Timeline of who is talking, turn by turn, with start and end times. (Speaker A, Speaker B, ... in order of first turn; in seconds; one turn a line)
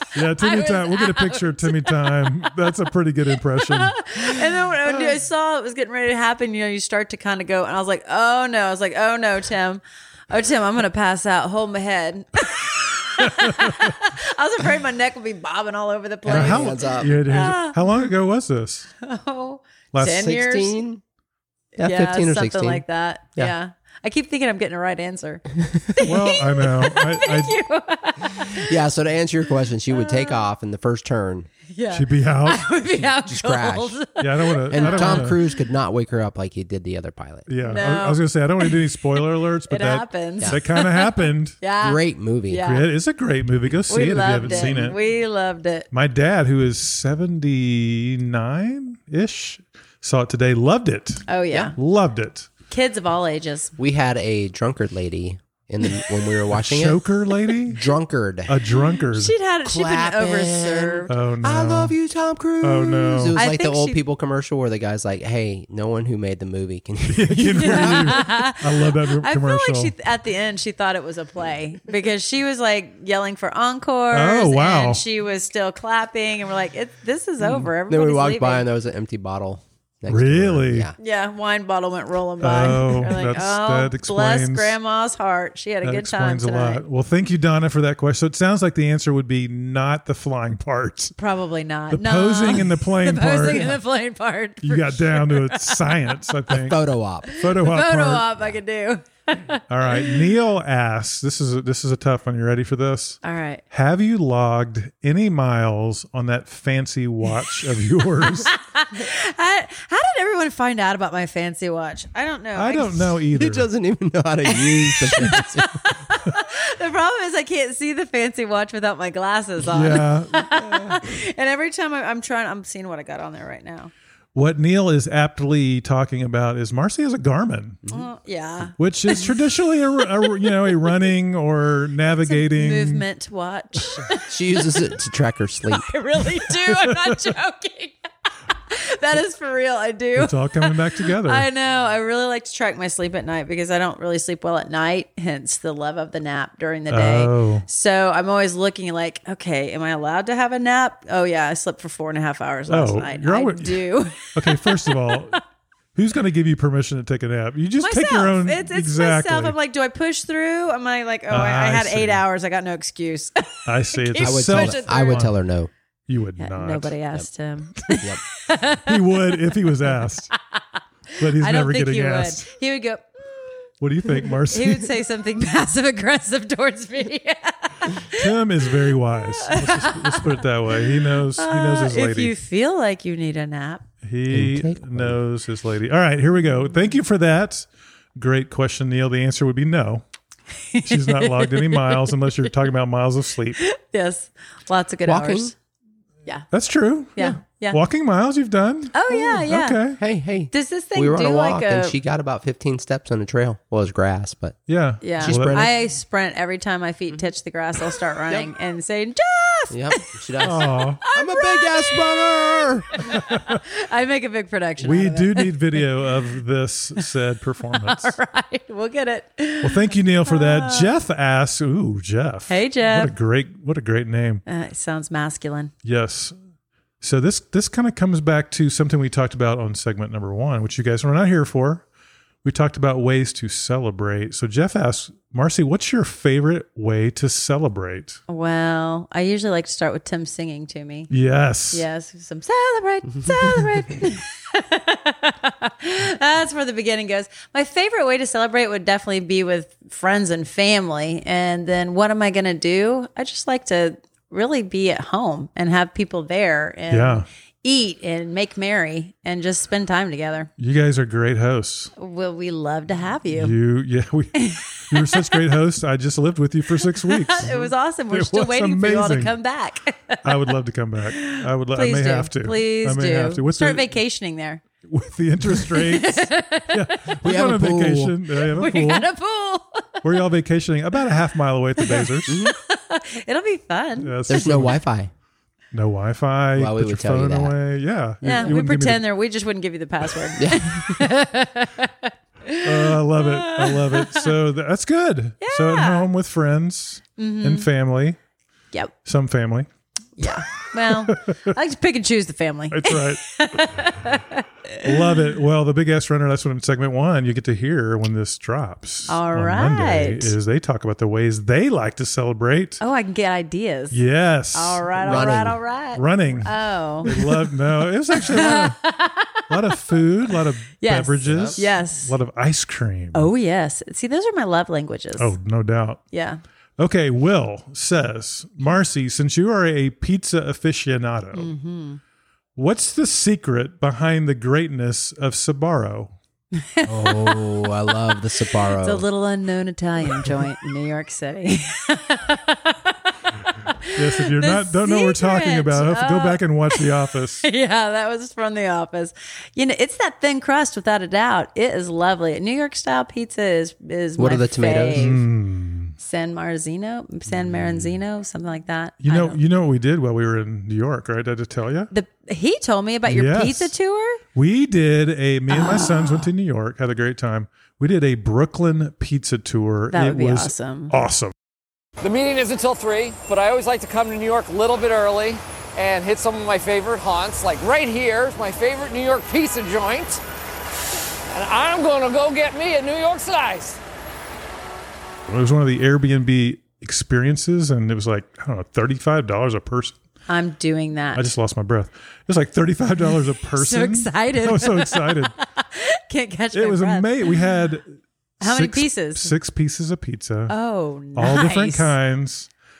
Speaker A: 0.1-4.2
Speaker B: 0.3-2.5
Speaker B: 3.5-17.8
Speaker A: 13.2-13.7
Speaker C: 16.2-17.1
Speaker A: 16.3-18.9
Speaker B: 19.0-20.8
Speaker A: 19.9-20.3
Speaker C: 20.1-21.0
Speaker C: 21.8-22.8
Speaker B: 21.8-28.8
Speaker A: 26.0-27.6
Speaker C: 28.6-31.5
Speaker B: 29.9-30.4
Speaker B: 31.7-35.4
Speaker A: 31.9-32.7
Speaker C: 33.0-34.0
Speaker A: 34.2-35.4
Speaker C: 34.7-37.5
Speaker A: 37.5-41.6
Speaker B: 37.6-42.9
Speaker C: 41.8-42.6
Speaker A: 42.6-45.0
Speaker B: 43.9-45.9
Speaker A: 45.9-52.5
Speaker B: 51.3-51.8
Speaker B: 52.7-53.7
Speaker C: 53.8-57.0
Speaker A: 56.5-57.9
Speaker C: 57.6-58.6
Speaker A: 58.5-59.4
Speaker B: 59.1-61.1
Speaker C: 59.6-68.2
Speaker A: 61.1-62.0
Speaker A: 62.6-63.4
Speaker B: 63.4-64.0
Speaker A: 67.1-69.9
Speaker B: 67.6-78.6
Speaker A: 74.1-75.0
Speaker C: 77.9-81.0
Speaker A: 80.1-80.9
Speaker B: 81.0-86.8
Speaker A: 82.4-84.8
Speaker A: 85.8-91.1
Speaker B: 91.2-96.0
Speaker A: 91.9-93.8
Speaker A: 94.6-96.8
Speaker C: 96.5-97.3
Speaker B: 97.3-100.3
Speaker A: 97.3-98.3
Speaker A: 99.7-103.2
Speaker B: 103.2-103.6
Speaker A: 103.7-108.5
Speaker B: 108.5-113.0
Speaker A: 112.5-113.7
Speaker C: 113.3-115.8
Speaker B: 114.5-123.9
Speaker A: 119.7-121.0
Speaker A: 124.3-127.9
Speaker B: 127.9-129.4
Speaker A: 128.8-133.1
Speaker B: 132.2-134.7
Speaker C: 134.3-135.8
Speaker B: 135.7-138.0
Speaker A: 136.7-137.3
Speaker B: 138.7-155.4
Speaker A: 140.2-141.5
Speaker A: 146.9-147.7
Speaker A: 152.7-155.4
Speaker A: 155.9-159.6
Speaker B: 157.8-165.3
Speaker A: 161.3-162.2
Speaker A: 163.7-165.3
Speaker C: 164.2-165.7
Speaker A: 166.1-167.0
Speaker B: 166.4-169.6
Speaker C: 167.9-168.2
Speaker A: 168.8-170.3
Speaker A: 171.2-172.5
Speaker B: 171.2-173.7
Speaker A: 173.8-174.9
Speaker B: 174.2-178.3
Speaker A: 178.1-182.3
Speaker B: 179.2-180.4
Speaker B: 181.4-183.9
Speaker A: 184.0-190.0
Speaker C: 184.3-185.2
Speaker B: 190.7-192.5
Speaker A: 190.8-193.6
Speaker B: 193.6-195.5
Speaker C: 195.1-195.5
Speaker A: 196.5-200.0
Speaker B: 197.2-197.8
Speaker B: 198.9-199.8
Speaker C: 200.0-204.6
Speaker B: 200.5-202.0
Speaker A: 204.7-205.7
Speaker B: 205.0-216.0
Speaker C: 205.2-205.7
Speaker C: 209.7-212.9
Speaker A: 210.4-211.0
Speaker A: 213.1-213.6
Speaker A: 214.8-218.1
Speaker B: 217.7-220.9
Speaker A: 219.6-224.4
Speaker B: 222.5-223.1
Speaker B: 224.5-225.7
Speaker A: 225.8-226.3
Speaker A: 227.0-231.8
Speaker A: 232.4-238.2
Speaker B: 238.3-241.1
Speaker A: 241.1-241.9
Speaker B: 241.7-260.5
Speaker A: 256.9-257.3
Speaker A: 260.6-261.9
Speaker B: 262.0-263.6
Speaker A: 263.3-269.4
Speaker B: 264.4-265.4
Speaker B: 266.9-270.4
Speaker A: 270.2-274.0
Speaker B: 271.1-274.6
Speaker A: 274.9-279.1
Speaker B: 275.6-277.1
Speaker C: 277.2-278.2
Speaker B: 278.4-280.0
Speaker A: 280.0-282.4
Speaker B: 281.8-284.2
Speaker C: 282.3-282.5
Speaker A: 284.0-284.8
Speaker C: 284.3-285.1
Speaker A: 285.7-289.0
Speaker C: 286.6-287.6
Speaker C: 288.2-288.5
Speaker B: 288.2-294.3
Speaker C: 290.4-291.0
Speaker A: 292.6-298.2
Speaker B: 295.4-296.1
Speaker B: 297.2-297.7
Speaker A: 299.1-299.7
Speaker B: 300.2-304.9
Speaker A: 302.7-303.6
Speaker A: 304.8-312.8
Speaker B: 309.1-310.3
Speaker B: 312.8-317.1
Speaker A: 313.9-318.8
Speaker C: 315.0-315.6
Speaker B: 318.1-320.0
Speaker A: 319.5-323.3
Speaker B: 320.7-322.1
Speaker C: 321.3-321.6
Speaker B: 323.1-325.3
Speaker A: 325.2-326.0
Speaker B: 326.1-326.4
Speaker A: 326.8-331.5
Speaker B: 331.3-332.0
Speaker A: 332.6-336.1
Speaker B: 336.6-337.9
Speaker C: 336.9-339.0
Speaker B: 338.8-342.9
Speaker B: 343.4-346.9
Speaker A: 343.9-347.5
Speaker B: 347.4-355.2
Speaker C: 354.2-355.1
Speaker A: 354.9-355.9
Speaker B: 356.0-359.4
Speaker A: 359.0-361.9
Speaker B: 361.9-364.2
Speaker A: 363.1-363.7
Speaker A: 364.3-371.3
Speaker B: 365.5-366.3
Speaker B: 369.9-370.9
Speaker D: 372.0-380.2
Speaker D: 381.3-383.7
Speaker A: 385.3-389.9
Speaker B: 390.3-391.3
Speaker A: 391.1-395.3
Speaker B: 393.4-397.4
Speaker A: 396.5-400.6
Speaker B: 398.4-399.3
Speaker B: 400.5-401.9
Speaker A: 401.1-402.5